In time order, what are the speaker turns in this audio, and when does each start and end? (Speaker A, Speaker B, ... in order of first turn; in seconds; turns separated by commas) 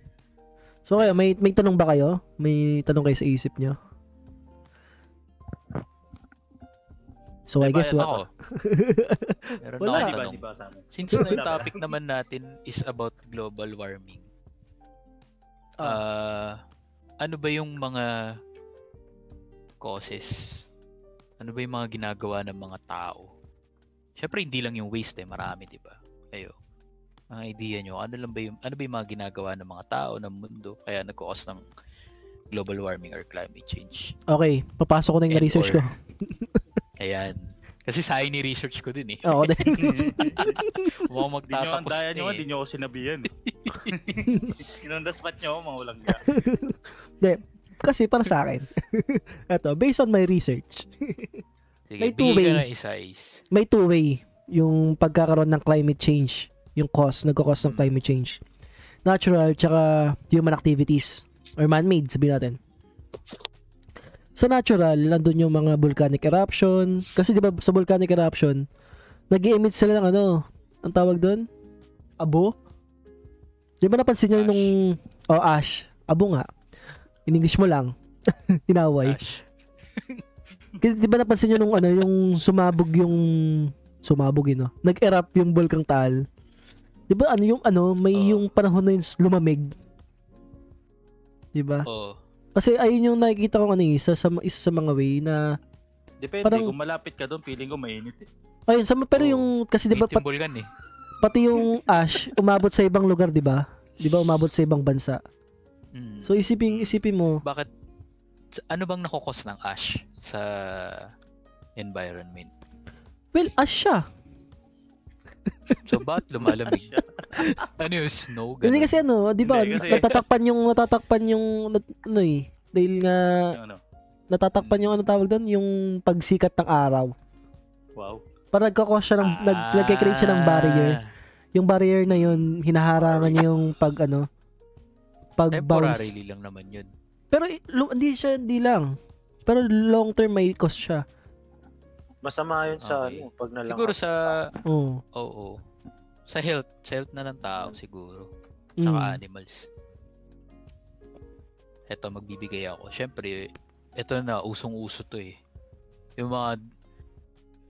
Speaker A: 0.9-3.8, Speaker A: 7.5-10.1, Speaker B: 7.6-8.1, Speaker C: 8.0-8.3, Speaker C: 9.6-14.2, Speaker B: 9.8-11.7, Speaker C: 15.8-16.6, Speaker C: 17.2-18.1, Speaker C: 19.8-20.6, Speaker C: 21.4-23.2, Speaker C: 24.2-26.6, Speaker C: 27.3-31.7, Speaker C: 32.5-34.1, Speaker A: 34.3-36.3, Speaker C: 35.3-35.8, Speaker C: 37.0-39.8, Speaker A: 39.2-41.0, Speaker B: 39.8-40.6, Speaker C: 40.4-42.4, Speaker B: 41.5-43.3, Speaker C: 43.5-44.0, Speaker B: 43.8-46.3, Speaker A: 46.1-51.4, Speaker C: 51.9-53.4, Speaker A: 52.0-52.6, Speaker A: 53.5-58.4, Speaker C: 57.6-57.9, Speaker A: 59.0-62.6, Speaker A: 64.3-68.7, Speaker A: 69.3-71.5, Speaker A: 72.2-72.5, Speaker A: 73.8-76.5, Speaker C: 74.4-74.7, Speaker A: 77.3-79.2, Speaker C: 79.0-79.4, Speaker C: 80.0-80.2, Speaker A: 80.8-86.2, Speaker A: 87.1-89.7, Speaker C: 88.1-88.5, Speaker A: 91.5-91.9, Speaker C: 91.9-92.2, Speaker A: 92.5-95.6, Speaker B: 96.2-98.3, Speaker A: 96.5-96.7, Speaker A: 98.7-100.2, Speaker C: 99.2-100.7, Speaker A: 101.2-105.2, Speaker C: 105.9-107.7, Speaker A: 106.2-107.4, Speaker C: 108.6-111.1, Speaker C: 111.8-112.5, Speaker A: 113.3-114.0, Speaker C: 115.9-117.0, Speaker B: 116.7-117.1, Speaker A: 117.3-117.6, Speaker C: 117.8-119.0, Speaker A: 118.6-123.6, Speaker B: 119.4-120.0, Speaker C: 119.8-120.2, Speaker B: 123.5-123.8, Speaker A: 124.3-127.1, Speaker C: 124.6-125.0, Speaker B: 128.0-128.2, Speaker A: 128.5-131.0, Speaker C: 129.2-131.1, Speaker A: 131.6-134.3, Speaker D: 133.0-133.4, Speaker A: 135.4-136.1, Speaker C: 135.5-136.9, Speaker A: 137.3-141.0, Speaker D: 142.2-144.4, Speaker C: 142.8-144.5, Speaker A: 144.7-145.0, Speaker C: 145.2-145.6, Speaker C: 146.3-148.3, Speaker A: 148.8-149.2, Speaker C: 148.8-149.7, Speaker C: 151.9-153.5, Speaker C: 154.0-155.4, Speaker C: 156.2-156.6